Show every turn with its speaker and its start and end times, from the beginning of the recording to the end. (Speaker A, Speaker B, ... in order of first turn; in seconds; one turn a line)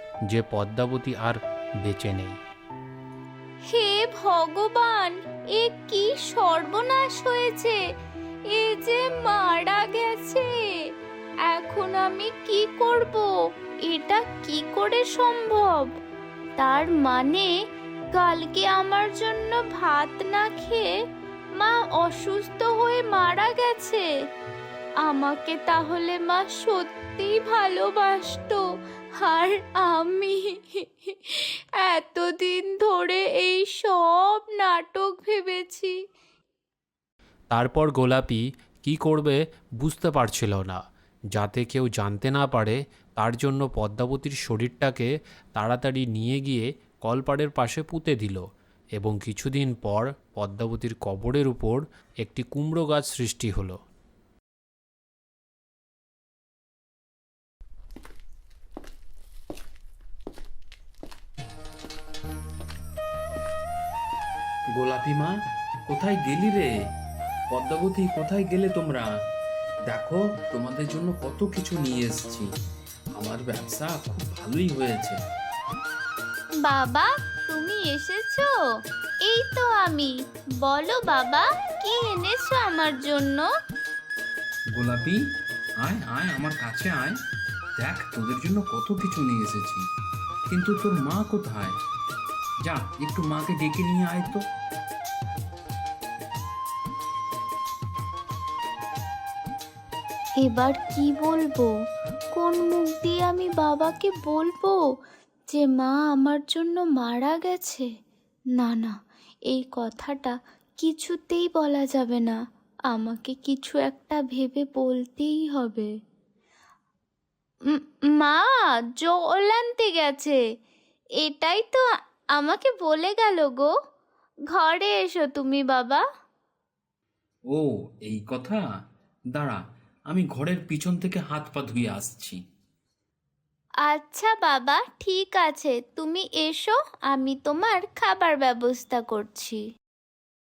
Speaker A: 0.3-2.4
Speaker B: 3.7-7.8
Speaker B: 8.5-10.4
Speaker B: 11.5-13.3
Speaker B: 13.9-15.9
Speaker B: 16.6-17.5
Speaker B: 18.1-20.9
Speaker B: 21.6-24.1
Speaker B: 25.0-28.6
Speaker B: 29.2-35.9
Speaker A: 37.5-40.8
Speaker A: 41.3-48.4
Speaker A: 49.0-53.8
Speaker C: 64.7-65.3
Speaker C: 65.9-66.7
Speaker C: 67.5-69.1
Speaker C: 69.9-72.5
Speaker C: 73.2-75.2
Speaker B: 76.6-78.5
Speaker B: 79.2-80.1
Speaker B: 80.6-83.5
Speaker C: 84.7-85.2
Speaker C: 85.8-87.2
Speaker C: 87.8-89.8
Speaker C: 90.5-91.8
Speaker C: 92.6-94.4
Speaker B: 100.4-101.7
Speaker B: 102.3-104.8
Speaker B: 105.5-107.9
Speaker B: 108.6-108.9
Speaker B: 109.5-112.4
Speaker B: 112.9-115.9
Speaker B: 117.7-118.4
Speaker B: 118.9-120.4
Speaker B: 121.2-121.8
Speaker B: 122.3-123.7
Speaker B: 124.5-126.0
Speaker C: 127.5-128.6
Speaker C: 129.3-132.4
Speaker B: 133.8-139.6